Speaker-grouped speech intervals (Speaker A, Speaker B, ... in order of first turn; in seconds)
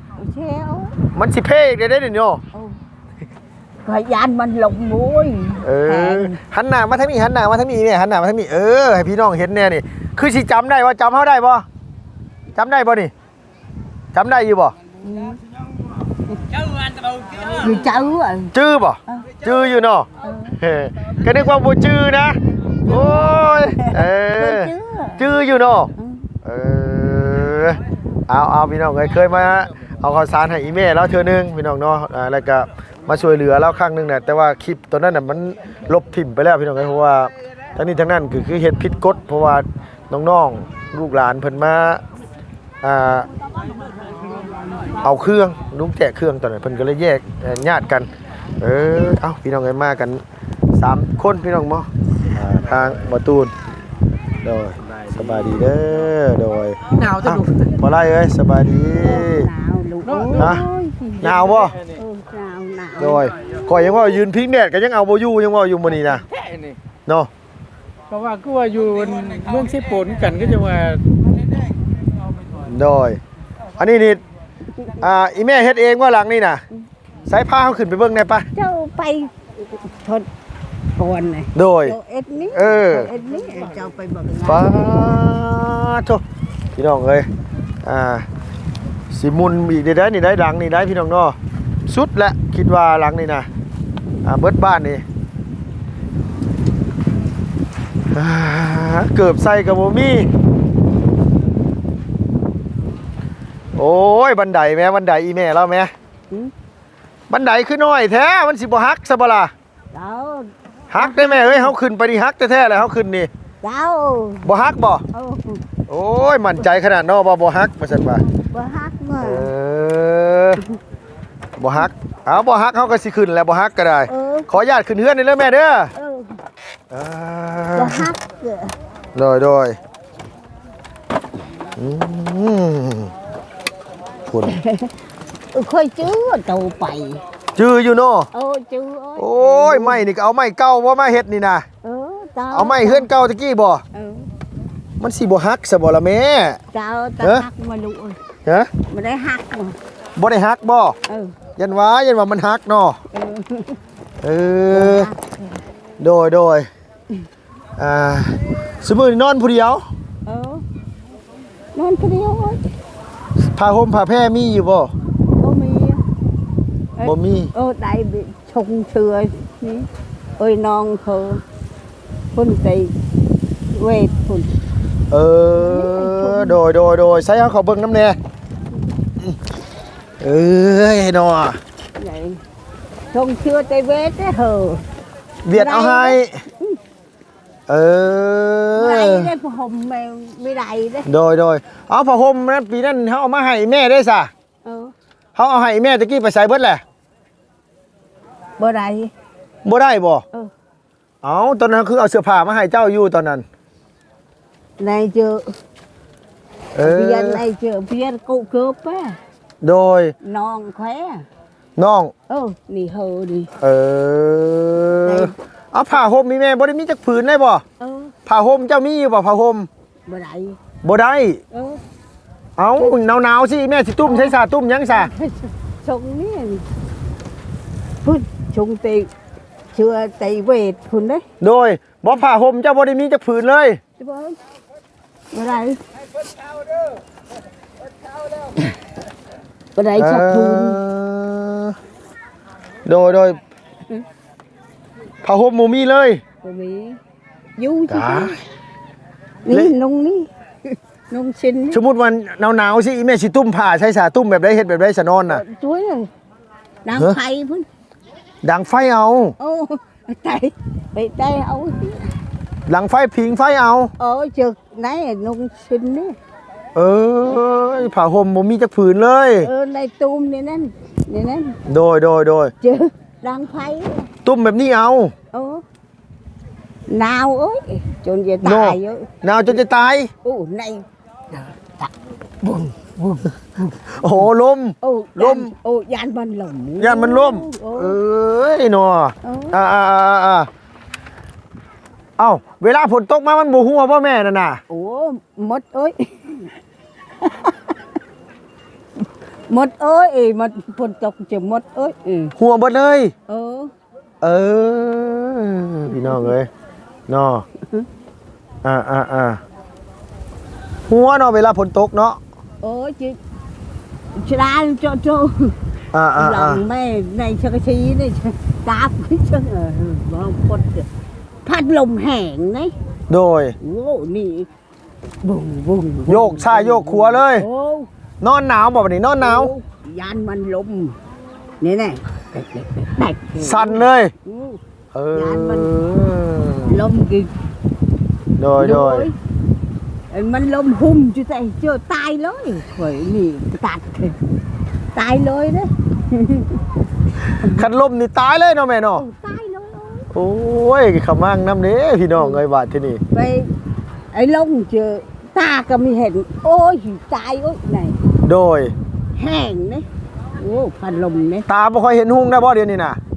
Speaker A: 0.2-1.1, 3.8-6.4, 15.0-15.4, 17.5-18.5, 20.2-20.6, 22.8-25.2, 26.0-26.3, 59.0-64.2, 78.5-80.3, 80.9-85.1, 109.9-111.7, 113.6-114.5, 115.1-115.6, 118.5-119.5, 124.1-124.5, 125.9-126.4, 127.7-128.7, 134.4-134.9, 135.5-137.2, 138.3-140.0, 141.8-143.1, 143.9-144.3, 146.7-148.2, 148.9-149.8, 151.1-151.3, 153.1-153.8, 154.7-155.5, 160.2-160.6, 161.7-162.7, 165.4-166.0, 167.0-169.9, 170.4-171.4, 172.3-172.9, 173.7-174.5, 175.6-176.6, 182.0-182.4, 183.1-184.8, 185.5-186.8, 188.7-191.1, 194.6-194.9, 198.6-199.1, 204.8-205.6, 206.8-209.2, 210.2-211.2, 212.3-213.5, 215.0-215.3, 217.8-218.1, 220.1-220.6, 221.5-221.8, 224.0-224.3, 224.9-226.7, 228.0-229.1, 229.7-231.2, 234.0-234.4, 235.3-235.8, 239.8-240.8, 246.4-247.0, 247.6-248.4, 249.4-251.8, 255.3-256.1, 256.8-257.7, 259.4-262.1, 264.0-266.2, 269.4-271.6, 272.6-274.1, 275.3-275.6, 276.9-279.5, 280.2-283.8, 284.8-288.0, 289.2-289.6, 294.7-296.5, 297.2-297.8, 299.5-302.3, 303.3-303.7, 305.9-306.3, 312.6-313.2, 314.1-315.5, 316.1-320.9, 321.4-322.7, 323.6-324.5, 325.2-327.9, 329.2-331.0, 331.6-334.6, 335.1-335.7, 336.6-337.3, 338.6-339.1, 340.1-344.2, 344.9-346.6, 348.9-350.1, 352.1-352.4, 353.1-353.5, 354.1-358.0, 359.1-361.4
Speaker B: 1.1-2.4, 5.6-11.7, 12.5-13.1, 14.1-14.7, 18.5-20.1, 20.6-25.9, 26.4-42.0, 42.8-43.3, 45.0-50.2, 50.7-53.5, 54.4-59.5, 60.3-60.6, 61.2-61.7, 63.0-66.2, 72.7-73.2, 73.8-74.2, 75.0-76.6, 77.3-78.5, 81.5-82.0, 82.5-83.1, 84.4-86.2, 86.8-87.2, 87.8-88.2, 89.1-91.3, 91.9-93.5, 94.2-95.0, 98.1-100.3, 103.7-105.9, 107.3-109.5, 110.9-113.3, 114.4-115.0, 115.9-118.2, 119.2-120.6, 121.6-125.9, 126.9-128.1, 129.1-129.8, 131.8-133.1, 134.3-134.5, 137.6-138.3, 139.2-141.7, 142.5-143.8, 145.0-146.6, 147.2-147.4, 148.4-148.7, 150.2-150.9, 151.6-153.0, 154.2-155.1, 156.0-156.7, 157.8-159.8, 163.5-164.9, 167.0-167.5, 175.1-178.2, 180.2-181.6, 185.4-186.3, 187.7-189.3, 191.1-194.3, 195.3-196.8, 199.6-200.2, 201.2-203.4, 206.7-207.4, 209.6-210.1, 211.8-212.1, 213.6-217.6, 218.2-219.7, 220.8-221.4, 222.6-225.1, 231.4-233.8, 240.0-241.8, 242.8-243.4, 245.2-246.2, 247.9-248.3, 251.7-255.4, 258.4-259.3, 262.7-263.9, 266.7-269.5, 271.6-272.5, 274.2-275.1, 278.4-280.1, 283.9-285.5, 286.8-290.5, 292.2-294.6, 302.4-303.1, 304.2-306.5, 307.1-307.4, 308.6-309.4, 310.9-312.2, 315.9-316.6, 323.1-323.6, 326.1-327.5, 328.2-329.5, 333.4-334.1, 334.9-336.8, 338.4-339.1, 347.4-349.0, 350.1-353.0, 358.2-358.7, 361.5-363.0
Speaker C: 56.9-57.8, 60.0-60.5, 61.2-61.7, 68.1-71.0